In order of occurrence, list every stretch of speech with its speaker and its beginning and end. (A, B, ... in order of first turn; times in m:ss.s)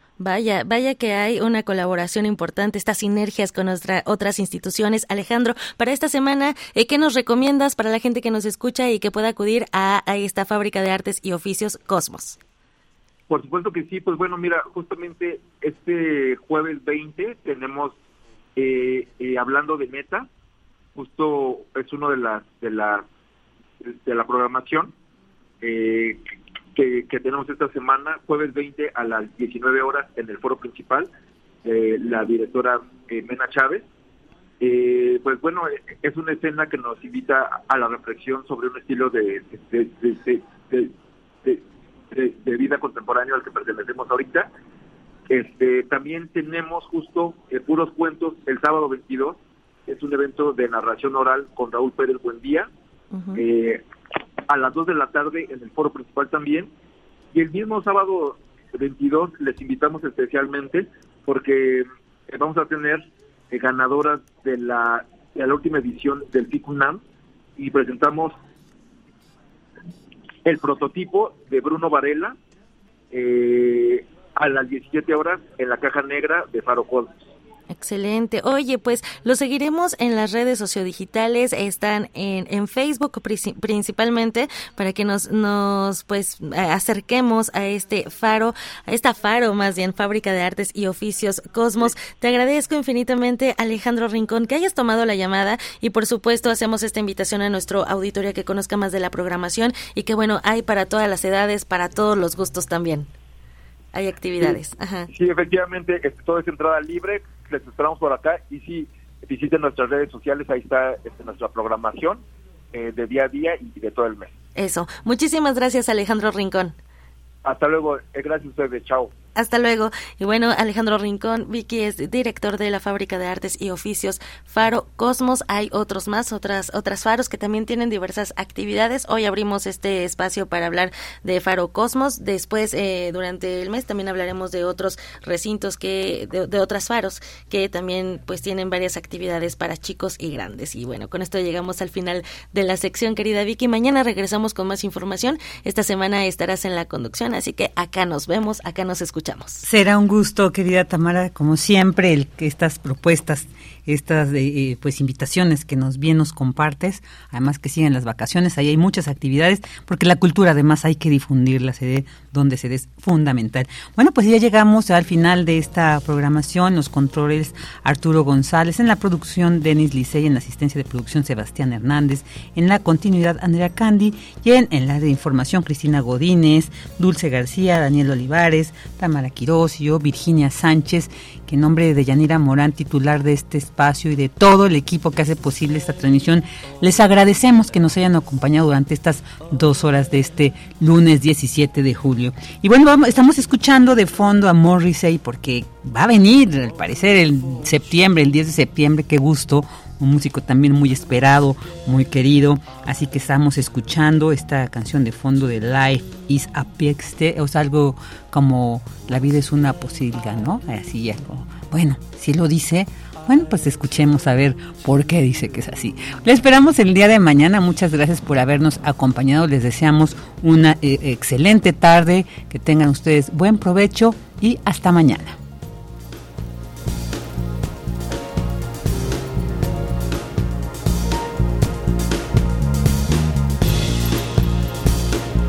0:00.2-0:12.4 A
0:13.3-0:18.0 B
0:18.6-0:20.3 B
0:21.0-0:23.0 B
0:23.8-0:24.9 B
0:25.6-0:26.2 B
0:26.8-0:31.1 B
0:31.6-0:33.8 B
0:34.6-0:40.9 B
0:41.4-0:44.5 B
0:45.3-0:52.7 B
0:53.1-0:53.4 A
0:53.3-0:53.8 B
0:54.5-0:56.7 B
0:57.3-1:07.0 B
1:07.6-1:08.4 B
1:10.4-1:12.4 B
1:13.1-1:17.1 B
1:17.7-1:43.1 A
1:43.9-1:45.1 A
1:45.1-1:52.2 B
1:52.7-1:54.4 B
1:54.6-1:56.8 A
1:57.4-1:59.1 B
1:59.4-2:29.6 A
2:29.6-3:45.4 C